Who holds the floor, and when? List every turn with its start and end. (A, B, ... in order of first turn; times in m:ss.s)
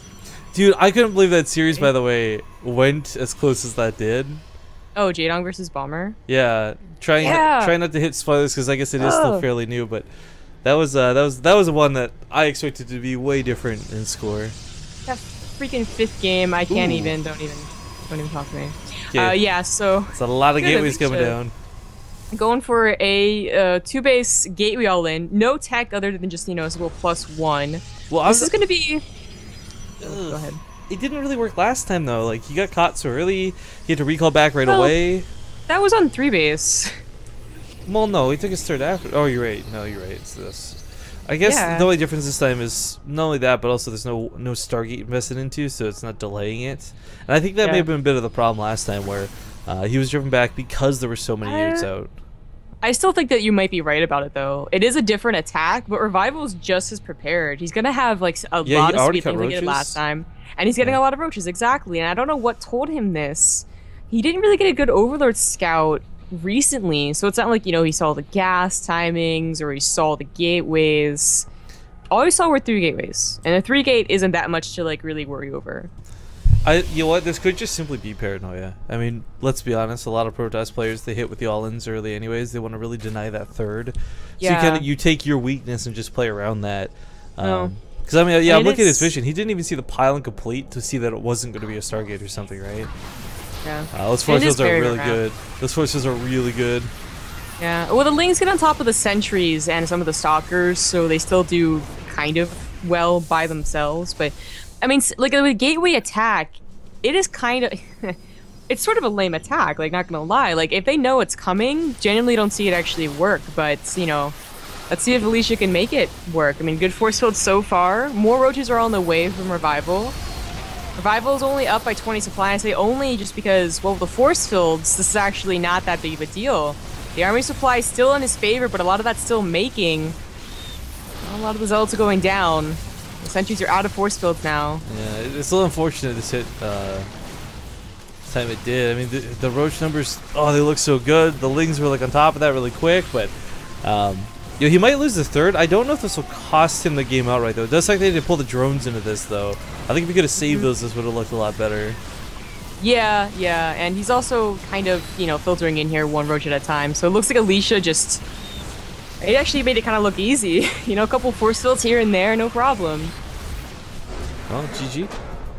0:00.5-0:04.4 A
0:05.0-0:06.2 B
0:06.3-0:10.1 A
0:07.2-0:07.7 B
0:09.0-0:09.4 B
0:10.6-0:14.5 A
0:15.0-0:21.4 B
0:16.7-0:17.1 A
0:19.1-0:19.4 A
0:20.1-0:21.5 A
0:22.3-0:29.0 B
0:28.1-0:28.5 A
0:30.0-0:35.2 A
0:30.0-0:30.6 B
0:34.6-0:34.9 B
0:35.7-0:36.9 B
0:37.9-0:52.1 A
0:41.4-0:41.9 B
0:47.6-0:47.9 B
0:51.4-0:51.9 B
0:52.8-1:11.5 B
0:58.6-1:00.0 A
1:12.1-1:15.9 B
1:16.6-1:32.9 A
1:24.4-1:24.9 B
1:27.4-1:27.7 B
1:28.4-1:29.1 B
1:33.6-1:35.2 B
1:33.9-1:36.9 A
1:37.6-1:48.2 B
1:48.7-1:54.3 B
1:54.9-2:00.2 B
2:01.0-2:10.2 B
2:11.2-2:14.8 B
2:14.8-2:17.1 A
2:18.2-2:32.0 A
2:30.4-2:30.7 B
2:32.8-2:38.2 B
2:39.2-2:43.1 B
2:44.5-2:45.1 A